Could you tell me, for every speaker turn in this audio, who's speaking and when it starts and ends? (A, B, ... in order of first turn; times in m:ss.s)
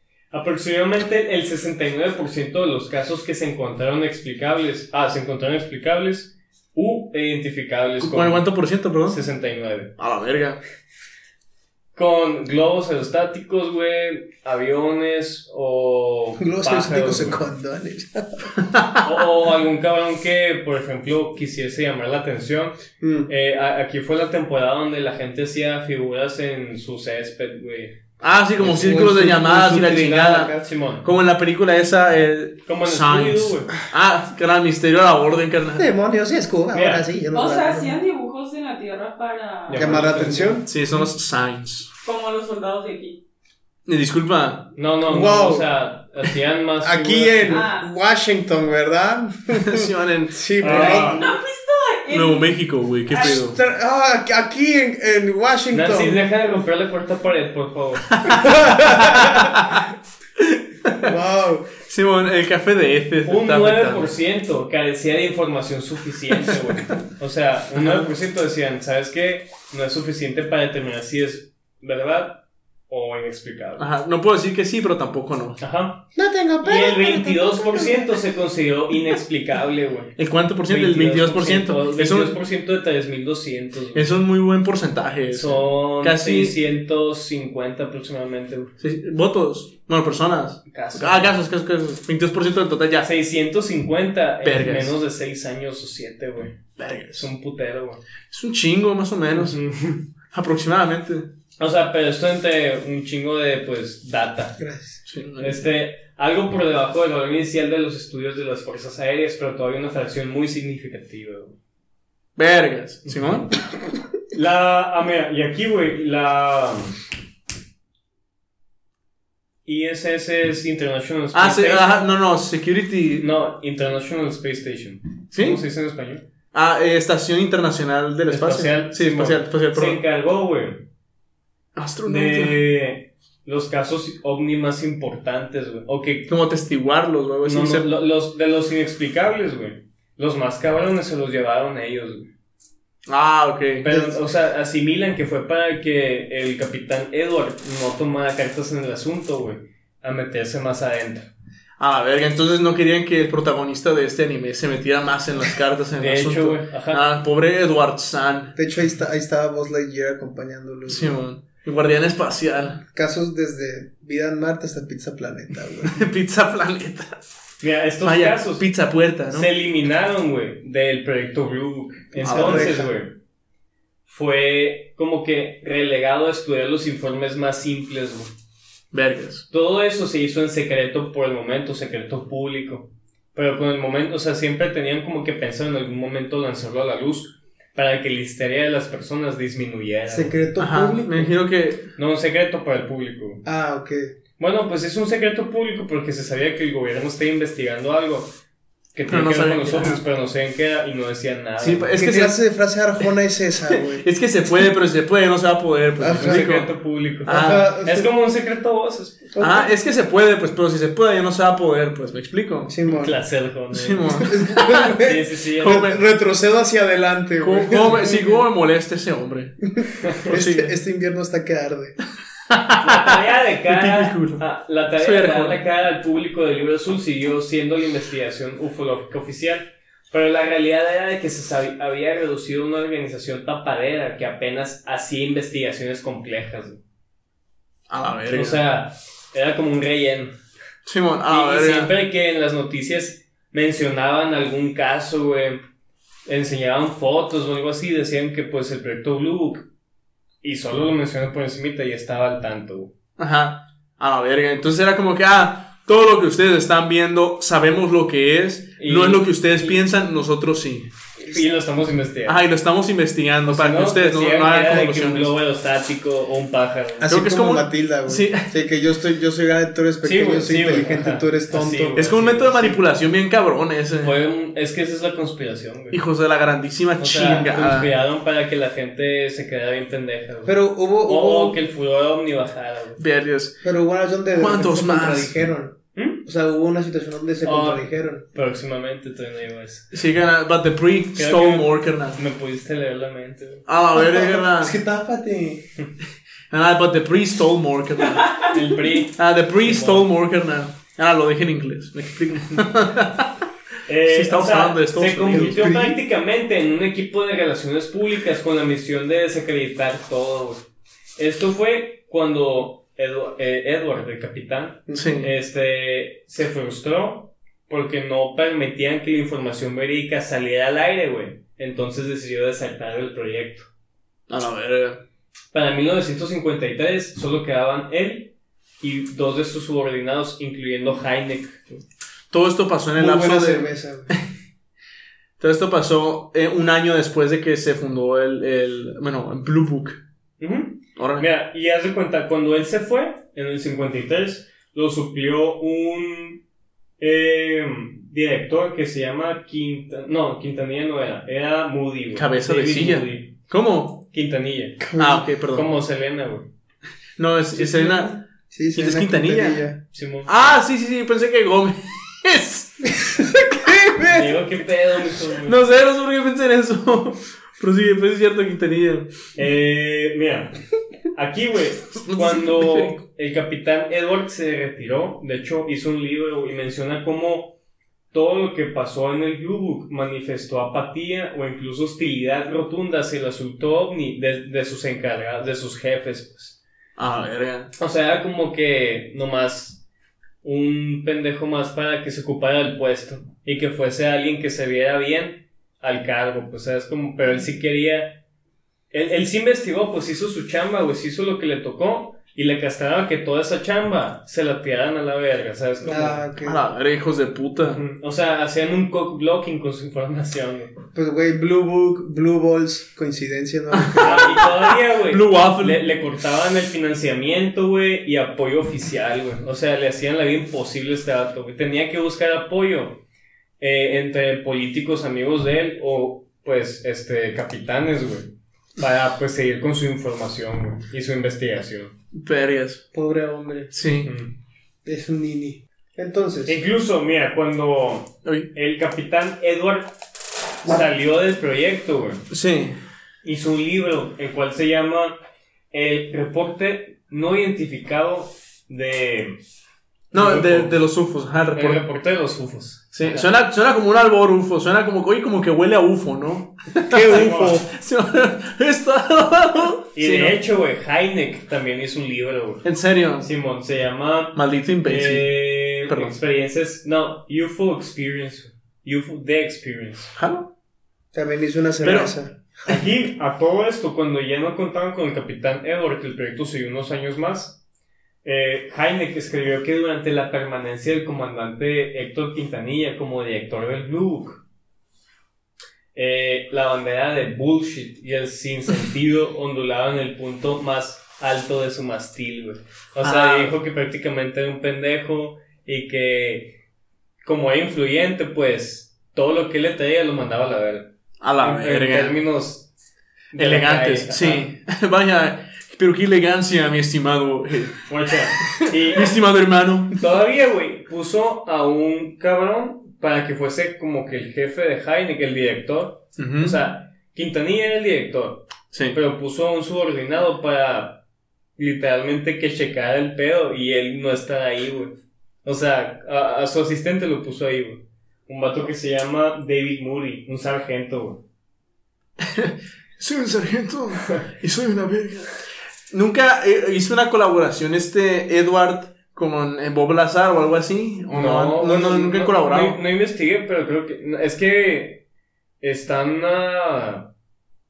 0:00.3-0:08.5 A
0:08.0-0:09.2 B
0:09.0-0:09.9 A
0:10.0-0:10.6 B
0:11.9-0:17.4 A
0:16.4-0:18.5 C
0:18.7-0:19.0 B
0:19.0-0:28.0 A
0:23.0-0:23.3 C
0:28.2-0:35.9 B
0:28.6-0:30.6 C
0:29.7-0:31.0 A
0:32.6-0:33.7 A
0:35.8-0:38.0 C
0:36.7-0:37.1 A
0:37.3-0:40.1 D
0:39.7-0:41.1 A
0:39.7-0:40.7 C
0:40.6-0:41.9 B
0:42.0-0:43.2 D
0:43.8-0:44.7 B
0:44.8-0:47.6 A
0:45.0-0:45.7 C
0:46.8-0:51.3 C
0:47.5-0:47.9 D
0:49.5-0:51.1 B
0:50.6-0:51.3 A
0:50.8-0:52.6 D
0:52.1-0:53.6 B
0:53.1-0:53.4 D
0:53.1-0:56.2 C
0:55.7-0:58.1 A
0:58.1-0:59.8 B
0:58.3-0:59.5 C
1:00.4-1:01.1 B
1:01.0-1:01.7 C
1:01.8-1:04.1 B
1:03.2-1:13.9 A
1:07.7-1:08.1 B
1:13.8-1:15.6 B
1:15.6-1:16.0 A
1:16.1-1:18.2 C
1:16.6-1:24.1 A
1:20.2-1:22.4 B
1:23.9-1:26.6 B
1:25.3-1:28.7 A
1:28.8-1:33.1 B
1:30.7-1:31.4 A
1:33.0-1:36.6 A
1:34.4-1:35.0 B
1:36.8-1:37.3 B
1:37.1-1:38.0 A
1:38.3-1:39.6 B
1:39.3-1:40.1 A
1:40.3-1:41.3 B
1:41.6-1:44.6 A
1:44.6-1:45.0 C
1:45.0-1:45.6 B
1:45.4-1:51.6 A
1:52.4-1:53.5 B
1:53.1-1:53.4 A
1:54.3-1:57.0 A
1:59.6-2:02.1 A
2:01.3-2:03.3 B
2:03.2-2:06.2 A
2:05.3-2:05.6 B
2:06.5-2:10.0 B
2:08.3-2:10.8 A
2:11.7-2:12.6 B
2:12.0-2:16.3 A
2:16.3-2:17.9 B
2:17.4-2:22.3 A
2:23.0-2:23.9 B
2:23.8-2:31.3 A
2:23.9-2:24.2 C
2:31.8-2:38.5 B
2:36.0-2:37.0 A
2:38.6-2:41.2 C
2:40.9-2:42.8 B
2:42.9-2:46.0 C
2:45.8-2:47.2 B
2:47.6-2:48.7 A
2:48.0-2:49.5 B
2:49.3-2:53.1 A
2:52.2-2:52.9 C
2:52.2-2:52.8 B
2:54.0-2:58.3 A
2:58.9-2:59.4 B
2:59.5-3:10.3 A
3:10.1-3:11.3 C
3:10.6-3:11.9 B
3:12.0-3:13.4 A
3:13.4-3:14.1 C
3:14.4-3:18.3 A
3:18.9-3:21.9 A
3:19.1-3:20.0 B
3:21.6-3:22.4 B
3:22.0-3:24.0 C
3:23.7-3:26.7 B
3:26.0-3:26.5 C
3:26.1-3:29.2 A
3:27.2-3:27.7 B
3:27.3-3:28.1 C
3:29.3-3:29.7 C
3:29.4-3:32.7 B
3:32.7-3:33.2 C
3:32.9-3:34.3 A
3:33.7-3:35.0 B
3:34.2-3:38.4 C
3:34.9-3:35.9 A
3:35.6-3:36.0 B
3:37.4-3:39.6 B
3:39.8-3:42.0 C
3:40.2-3:40.7 B
3:42.5-3:44.4 B
3:42.8-3:56.8 A
3:45.0-3:45.6 B
3:57.9-3:58.6 B
3:58.3-4:00.4 A
4:00.8-4:01.9 B
4:01.3-4:05.6 A
4:06.3-4:09.7 A
4:10.4-4:12.9 A
4:13.2-4:20.9 B
4:18.8-4:19.8 A
4:21.2-4:22.4 A
4:22.2-4:25.3 B
4:23.5-4:27.1 A
4:27.0-4:32.1 C
4:27.1-4:28.5 B
4:30.0-4:32.8 A
4:32.0-4:34.1 B
4:34.0-4:36.0 A
4:35.9-4:37.9 B
4:37.0-4:43.0 A
4:40.4-4:41.6 C
4:43.0-4:43.6 B
4:43.6-4:48.2 C
4:44.3-4:45.4 B
4:45.9-4:46.2 A
4:47.4-4:49.9 A
4:49.9-4:52.2 B
4:51.2-4:53.7 A
4:53.7-4:54.8 B
4:53.9-4:55.7 C
4:56.5-4:58.4 B
4:58.5-5:00.1 A
4:59.2-5:03.4 B
5:03.9-5:10.6 A
5:04.1-5:05.8 B
5:05.3-5:06.0 C
5:11.2-5:23.7 A
5:14.9-5:15.3 B
5:24.3-5:25.0 B
5:25.5-5:31.7 A
5:32.3-5:34.2 B
5:33.0-5:34.1 C
5:35.4-5:40.0 B
5:40.4-5:46.4 A
5:41.0-5:41.2 B
5:47.0-5:53.4 A
5:52.1-5:54.0 B
5:54.1-5:54.9 A
5:54.8-5:55.3 C
5:55.0-5:55.7 B
5:55.5-5:56.5 A
5:57.2-6:02.9 B
5:57.6-5:58.0 A
5:58.5-5:59.8 C
5:59.9-6:00.3 A
6:03.4-6:04.4 C
6:04.1-6:05.6 A
6:05.4-6:09.1 B
6:09.3-6:10.5 A
6:11.1-6:17.5 A
6:12.0-6:13.0 B
6:18.1-6:26.6 A
6:27.0-6:27.7 B
6:27.8-6:29.8 A
6:30.4-6:38.2 A
6:38.9-6:46.2 A
6:45.8-6:46.6 C
6:46.4-6:47.8 B
6:47.6-6:50.7 A
6:50.9-6:54.4 C
6:53.7-6:55.8 B
6:54.0-7:03.0 A
7:03.6-7:11.9 A
7:12.1-7:12.8 B
7:12.9-7:13.7 C
7:13.7-7:14.1 B
7:14.0-7:14.3 A
7:14.8-7:16.6 C
7:16.4-7:19.9 A
7:18.2-7:18.5 B
7:20.6-7:22.2 A
7:22.3-7:22.8 B
7:23.2-7:25.2 A
7:25.7-7:29.4 A
7:30.1-7:31.8 B
7:30.1-7:30.8 A
7:31.5-7:33.3 A
7:32.9-7:40.4 B
7:36.8-7:37.7 C
7:37.0-7:37.6 A
7:39.9-7:42.6 A
7:42.6-7:43.3 B
7:43.2-7:50.1 A
7:44.3-7:46.2 B
7:50.1-7:50.5 B
7:51.1-7:52.8 C
7:51.8-7:52.1 B
7:51.8-7:52.1 A
7:52.6-7:57.6 A
7:58.2-8:04.4 A
8:05.9-8:16.6 A
8:13.0-8:13.5 B
8:17.2-8:22.7 A
8:21.2-8:22.2 B
8:23.3-8:24.5 A
8:23.4-8:27.8 B
8:27.9-8:29.2 A
8:28.5-8:30.0 B
8:29.9-8:41.0 A
8:36.2-8:36.6 B
8:38.7-8:39.0 B
8:41.6-8:51.2 A
8:52.2-8:55.3 B
8:55.9-9:02.8 B
9:01.1-9:05.0 A
9:05.6-9:07.1 A